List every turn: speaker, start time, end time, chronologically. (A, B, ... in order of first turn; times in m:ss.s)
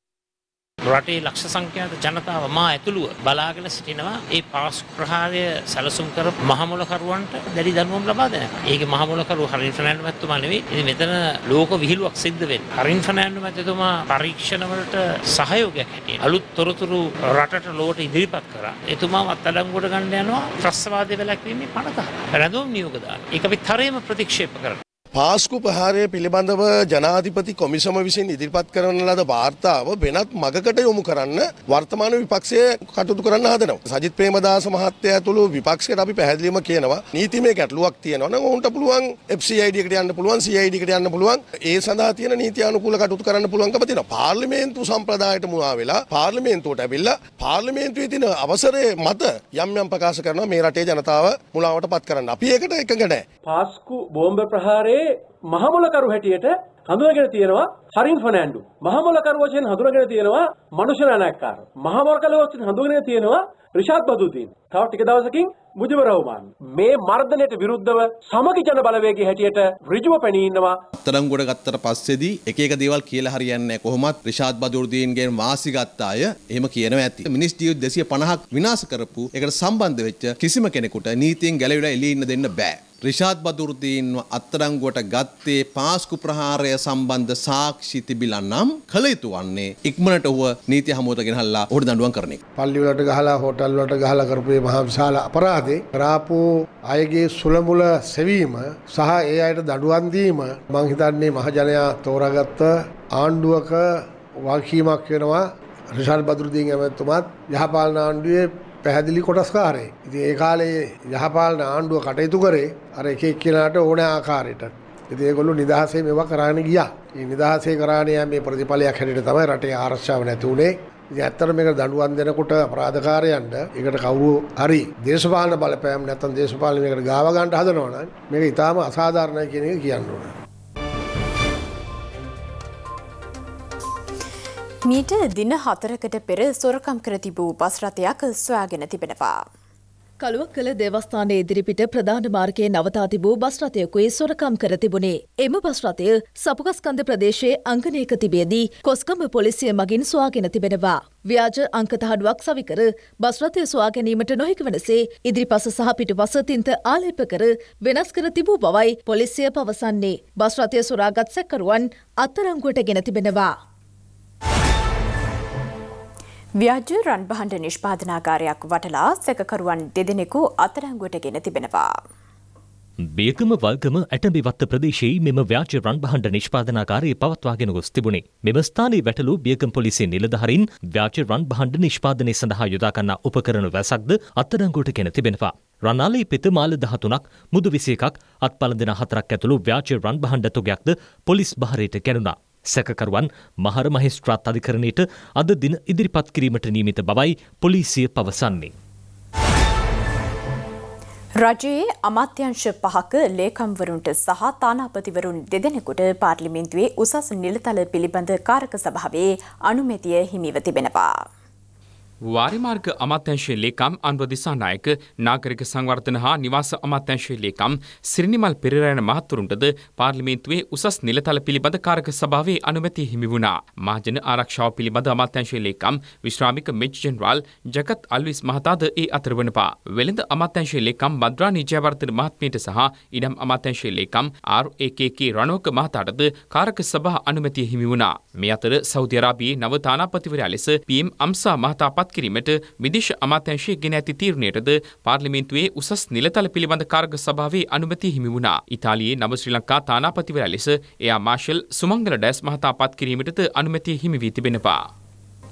0:00.9-0:24.8 A
0:25.1-0:53.2 B
0:53.5-1:10.8 C
1:11.0-1:32.4 D
1:32.6-1:43.9 E
1:44.4-2:10.3 E
2:14.9-2:19.4 F
2:20.2-2:43.5 G
2:46.6-2:51.9 F
2:53.2-3:18.7 H
3:21.4-3:31.2 F
3:32.3-4:14.8 I